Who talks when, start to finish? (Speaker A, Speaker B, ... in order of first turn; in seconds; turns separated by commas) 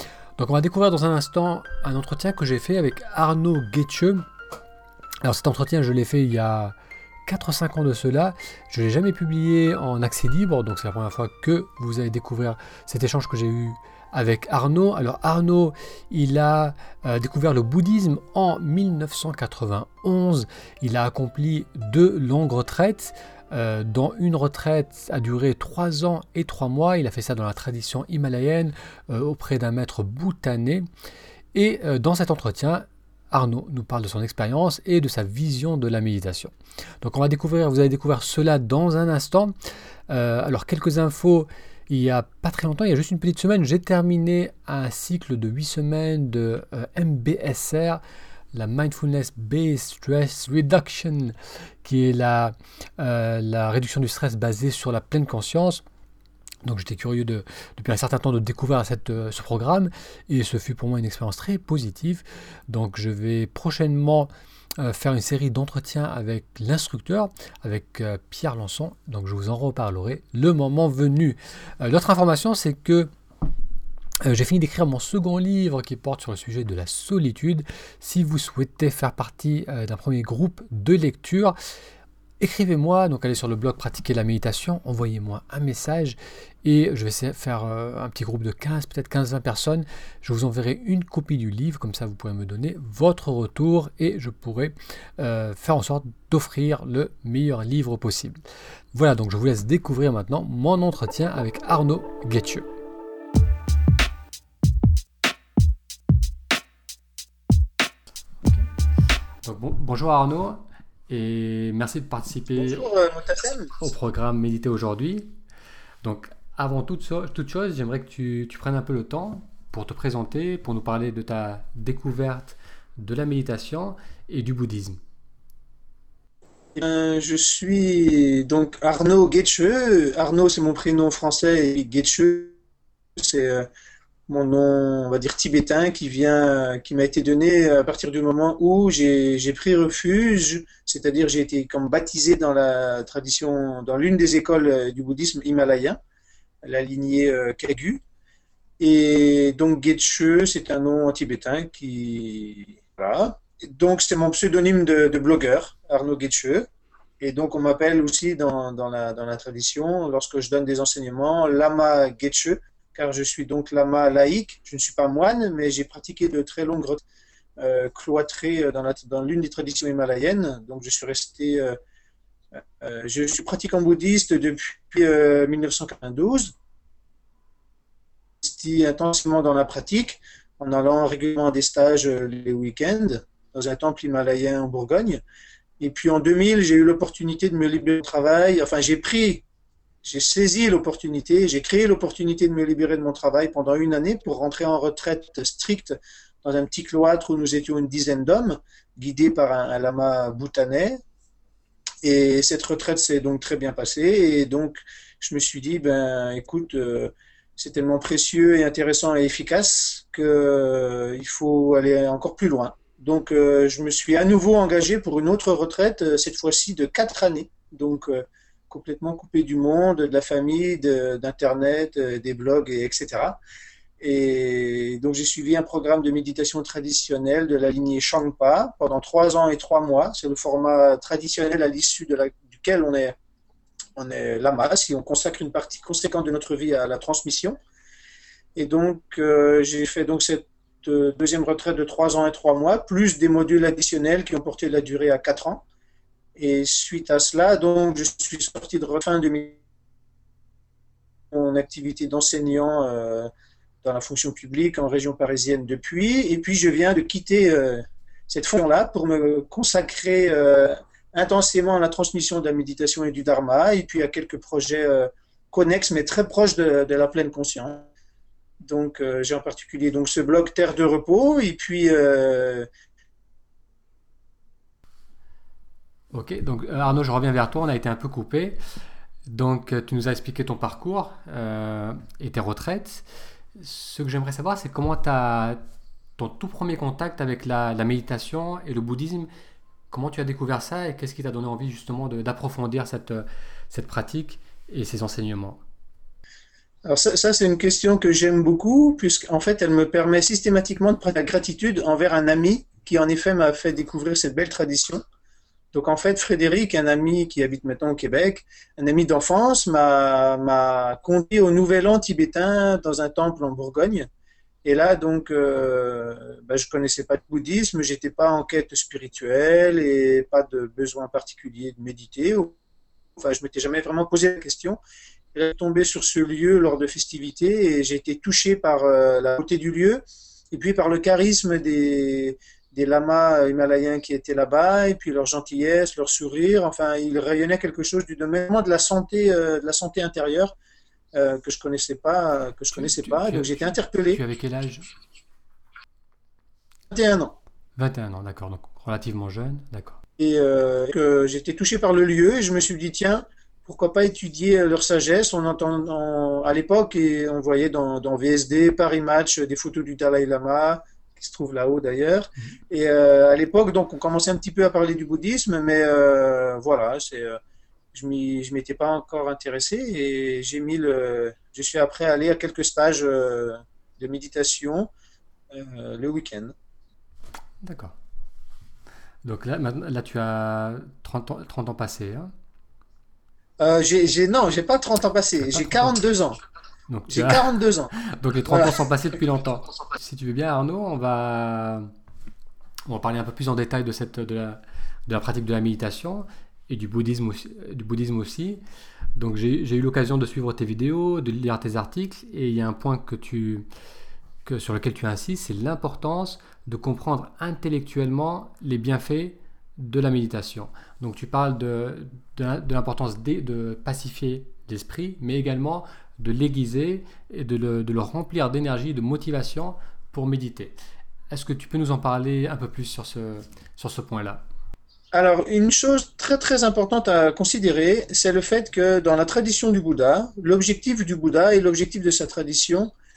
Speaker A: 0.4-4.3, Speaker A: 5.2-6.8, Speaker A: 7.3-30.9, Speaker A: 31.5-39.5, Speaker A: 40.1-48.0, Speaker A: 48.5-55.8, Speaker A: 56.6-73.1, Speaker A: 74.2-81.5, Speaker A: 82.4-98.4, Speaker A: 98.9-102.6, Speaker A: 109.4-112.9, Speaker B: 112.6-113.8, Speaker A: 113.8-115.3, Speaker A: 116.0-125.0, Speaker B: 126.8-132.6, Speaker B: 133.2-133.7, Speaker B: 134.3-146.0, Speaker B: 146.6-148.0, Speaker B: 148.8-156.7, Speaker B: 157.2-167.0, Speaker B: 167.6-171.8, Speaker B: 172.8-176.5, Speaker B: 178.4-185.2, Speaker B: 185.8-189.4, Speaker B: 190.0-201.0, Speaker B: 202.0-223.4, Speaker B: 224.0-233.2, Speaker B: 234.0-237.6, Speaker B: 238.5-245.6, Speaker B: 246.3-249.6, Speaker B: 251.3-253.3, Speaker B: 253.8-267.9, Speaker B: 268.6-272.7, Speaker A: 276.1-278.6, Speaker A: 279.3-285.6, Speaker A: 286.2-289.3, Speaker A: 289.9-295.6, Speaker B: 296.9-305.0, Speaker B: 305.7-314.1, Speaker B: 314.6-322.6, Speaker B: 323.2-324.8, Speaker B: 325.4-340.5, Speaker B: 341.1-344.2, Speaker A: 342.8-344.9, Speaker B: 346.9-347.4, Speaker A: 347.8-350.0, Speaker B: 350.2-367.4, Speaker B: 367.9-374.9, Speaker B: 375.5-376.5, Speaker A: 377.6-377.9, Speaker A: 379.2-382.3, Speaker B: 383.6-386.4, Speaker A: 385.5-385.9, Speaker A: 386.9-391.9, Speaker B: 387.1-387.9, Speaker B: 388.5-388.8, Speaker A: 392.9-398.6, Speaker A: 399.1-403.6, Speaker A: 404.4-420.7, Speaker A: 421.3-424.4, Speaker B: 425.1-432.9